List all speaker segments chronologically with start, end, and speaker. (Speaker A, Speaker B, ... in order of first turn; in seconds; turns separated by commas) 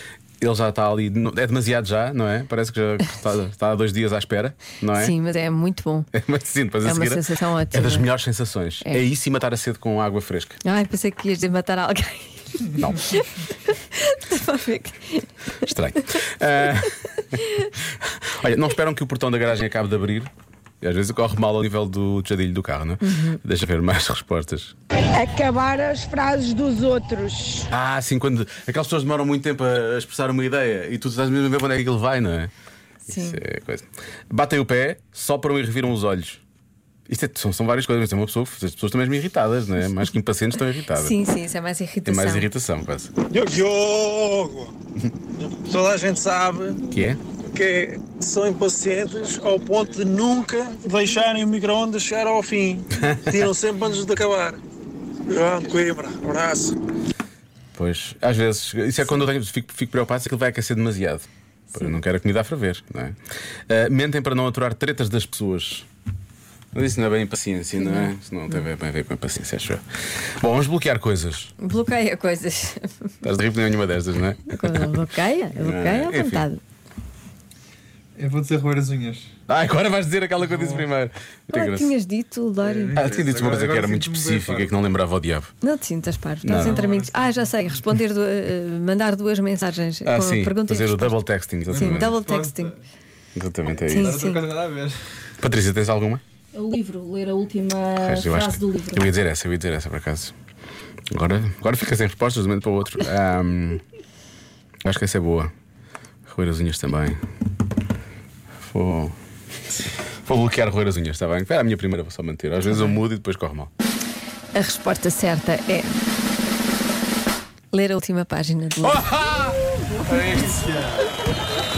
Speaker A: 0.4-5.2, Speaker B: 5.0-6.1, Speaker A: 6.1-10.6, Speaker B: 6.8-8.1, Speaker B: 10.6-15.3, Speaker A: 15.7-17.4, Speaker A: 18.1-20.3, Speaker A: 20.8-24.7, Speaker B: 23.0-23.4, Speaker C: 25.6-27.6, Speaker A: 27.7-32.5, Speaker B: 33.1-33.4, Speaker A: 33.1-36.4, Speaker A: 37.1-41.2, Speaker B: 41.0-42.5, Speaker A: 42.1-43.1, Speaker D: 43.3-44.7, Speaker D: 45.5-46.8, Speaker A: 46.9-47.2, Speaker D: 47.5-54.6, Speaker A: 53.0-53.4, Speaker D: 55.3-56.7, Speaker A: 57.8-63.2, Speaker A: 63.7-65.9, Speaker A: 66.7-69.8, Speaker B: 67.8-68.1, Speaker A: 70.4-71.5, Speaker B: 71.6-72.9, Speaker A: 73.2-74.9, Speaker B: 74.5-76.6, Speaker A: 75.6-76.5, Speaker E: 78.2-79.3, Speaker A: 79.5-81.9, Speaker B: 81.5-83.0, Speaker E: 82.6-84.8, Speaker A: 83.0-85.5, Speaker B: 85.6-91.2, Speaker A: 86.4-86.8, Speaker E: 86.6-87.7, Speaker A: 90.1-92.1, Speaker E: 91.7-92.8, Speaker B: 91.8-92.7, Speaker A: 93.4-94.2, Speaker E: 93.7-95.0, Speaker B: 93.9-94.4, Speaker A: 95.4-96.2, Speaker F: 96.5-99.1, Speaker A: 98.0-100.3, Speaker A: 101.1-103.8, Speaker A: 104.8-105.5, Speaker A: 106.3-107.2, Speaker A: 108.7-109.2, Speaker A: 110.3-113.7, Speaker B: 112.7-113.0, Speaker B: 114.5-116.0, Speaker B: 117.7-119.0, Speaker A: 118.8-120.7, Speaker E: 120.5-121.2